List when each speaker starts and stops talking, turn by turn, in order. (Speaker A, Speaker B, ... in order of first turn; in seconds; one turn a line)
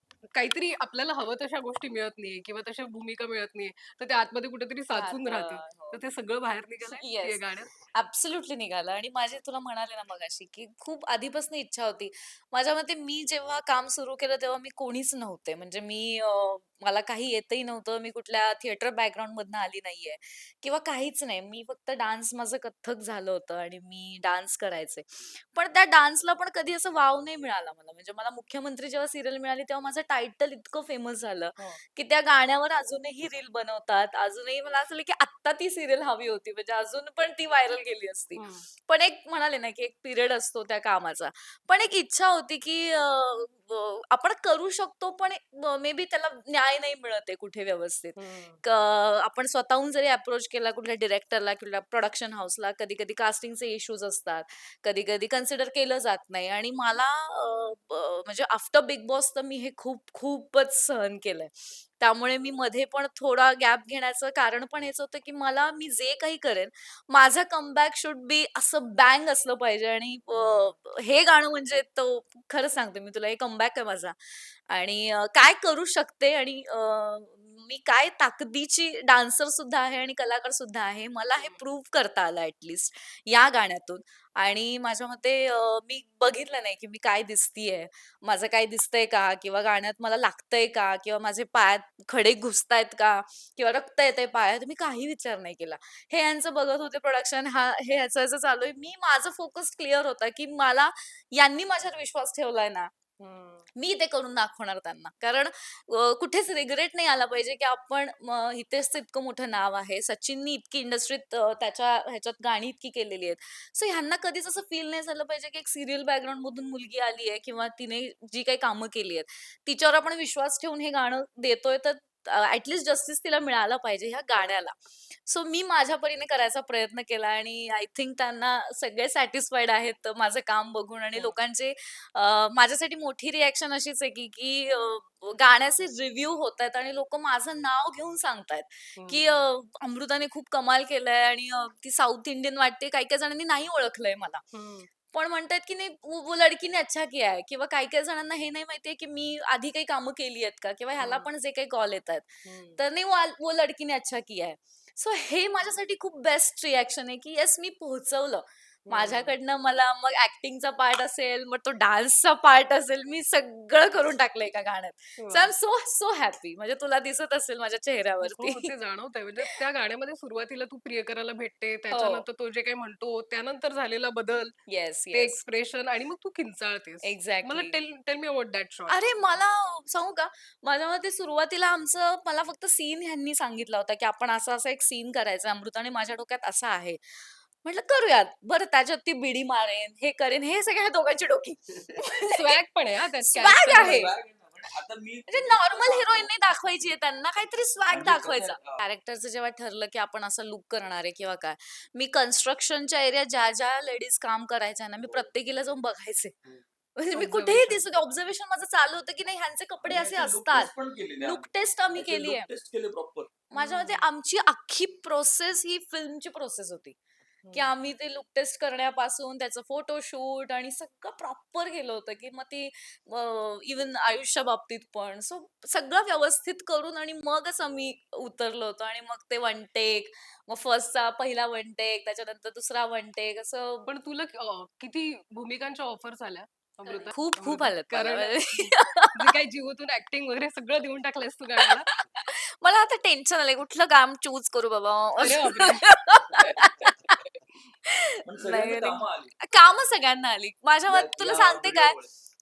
Speaker A: 0.3-7.8
Speaker B: 5.0-6.0
Speaker B: 6.9-74.2
Speaker A: 38.4-38.7
Speaker A: 48.2-48.6
Speaker A: 70.3-70.8
Speaker B: 74.7-102.9
Speaker A: 81.3-81.6
Speaker A: 103.2-103.7
Speaker B: 103.8-144.4
Speaker A: 139.0-139.5
Speaker A: 144.5-144.9
Speaker B: 145.1-168.7
Speaker A: 151.0-151.3
Speaker A: 152.4-152.8
Speaker A: 158.9-159.4
Speaker A: 165.2-165.5
Speaker A: 168.2-174.6
Speaker B: 171.9-172.2
Speaker B: 174.7-175.4
Speaker A: 175.1-179.4
Speaker B: 177.0-177.8
Speaker B: 178.9-187.0
Speaker B: 187.6-192.3
Speaker A: 192.1-194.1
Speaker B: 193.4-194.1
Speaker C: 193.5-196.6
Speaker B: 195.3-206.3
Speaker C: 197.9-198.8
Speaker B: 207.0-210.7
Speaker A: 207.2-207.9
Speaker C: 209.8-213.3
Speaker B: 211.2-212.5
Speaker B: 213.5-217.0
Speaker A: 213.6-214.0
Speaker A: 217.4-217.7
Speaker B: 217.5-233.9
Speaker A: 233.9-241.9
Speaker B: 236.9-239.1
Speaker B: 241.6-247.2
Speaker A: 245.2-246.6
Speaker B: 247.9-252.0
Speaker C: 248.3-249.4
Speaker C: 250.9-252.1